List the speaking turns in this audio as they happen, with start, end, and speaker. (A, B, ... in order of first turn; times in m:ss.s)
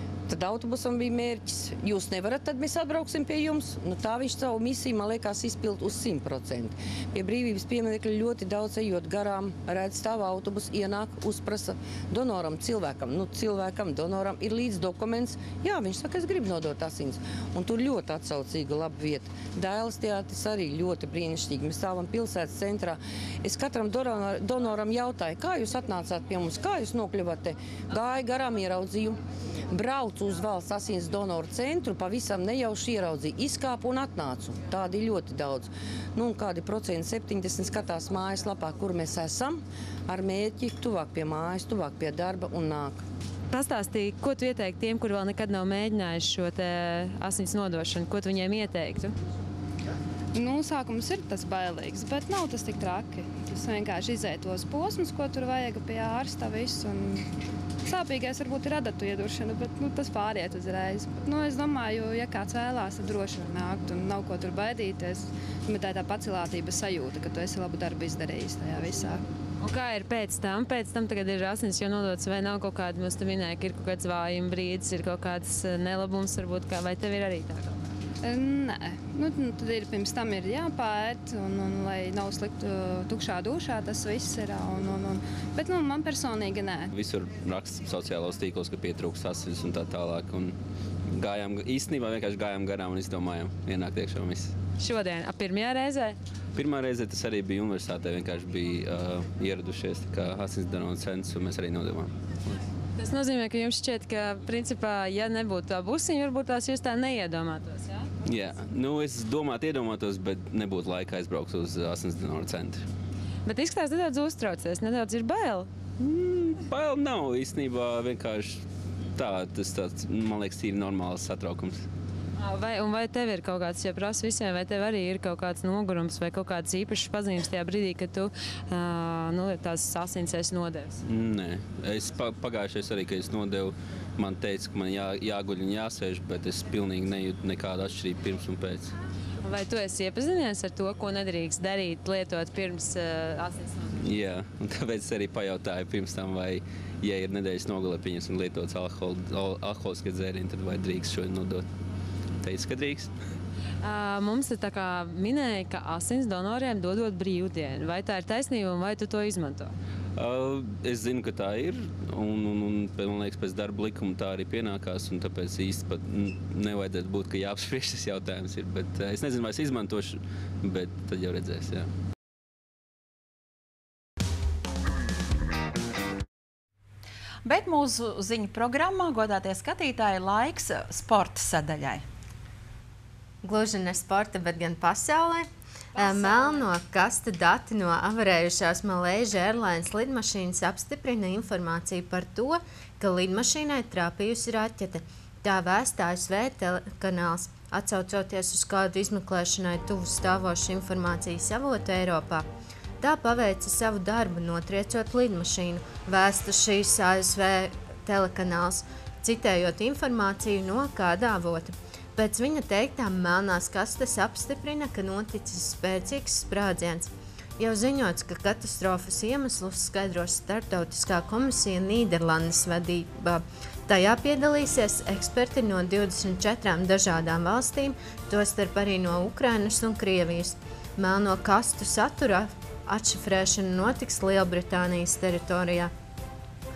0:00.3-0:43.0 A
0:43.5-0:49.1 B
0:50.3-0:57.3 C
0:57.8-1:09.2 C
1:09.6-1:17.8 B
1:18.2-1:26.9 C
1:26.9-1:30.6 D
1:31.1-1:34.5 D
1:34.8-1:36.2 B
1:36.5-1:42.1 D
1:43.0-1:48.1 B
1:48.2-1:52.8 D
1:53.4-1:55.7 B
1:56.0-1:58.6 D
1:59.1-2:01.8 D
2:02.4-2:11.0 B
2:11.0-2:18.9 D
2:19.4-2:24.0 B
2:24.0-2:31.6 D
2:32.4-2:33.1 D
2:33.8-2:39.7 B
2:40.2-2:51.9 D
2:57.4-3:02.0 E
3:03.4-3:22.5 F
3:23.0-3:55.9 F